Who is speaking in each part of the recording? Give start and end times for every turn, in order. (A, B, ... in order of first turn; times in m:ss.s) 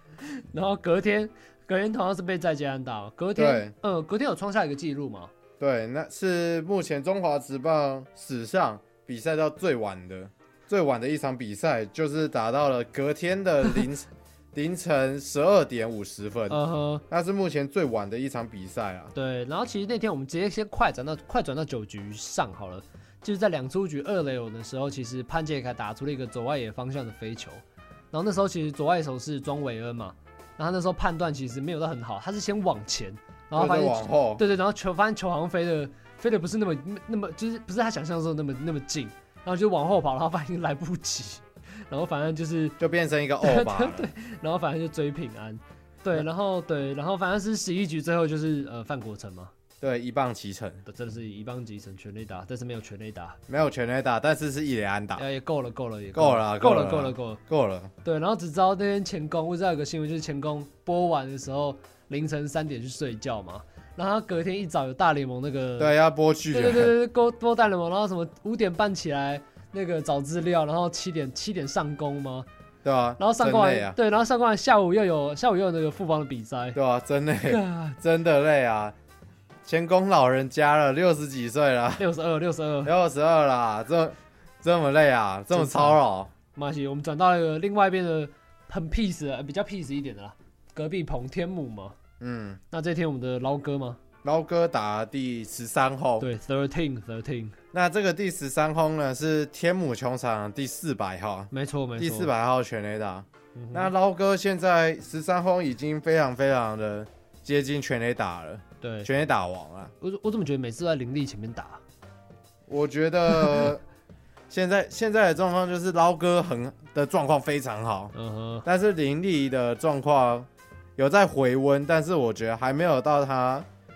0:00.2-0:05.3 A
0:03.4-0:03.7 B
0:05.6-0:16.6 B
0:16.5-0:17.0 A
0:17.1-0:19.1 B
0:19.1-0:42.8 A
0:33.5-0:34.4 B
0:42.8-0:44.1 B
0:43.4-0:49.5 A
0:49.8-0:50.8 B
0:50.9-0:53.4 A
0:53.5-0:55.2 B
0:55.2-0:57.4 A
0:56.1-0:57.9 B
0:58.0-1:05.9 A
1:05.8-1:06.9 B
1:06.5-1:12.5 A
1:12.8-1:14.0 B
1:13.2-1:16.8 A
1:16.7-1:18.9 B
1:17.5-1:18.0 A
1:19.6-1:22.0 B
1:22.0-1:22.9 A
1:22.8-1:26.3 B
1:25.5-1:26.0 A
1:26.5-1:32.0 A
1:32.2-1:32.6 B
1:32.7-1:34.0 A
1:34.2-1:36.3 B
1:36.2-1:37.6 A
1:37.7-1:49.9 B
1:41.5-1:42.3 A
1:43.5-1:43.9 A
1:48.8-1:49.1 A
1:50.0-1:51.8 A
1:52.7-1:53.8 B
1:54.5-1:58.1 B
1:58.1-1:58.6 A
1:58.6-2:03.7 B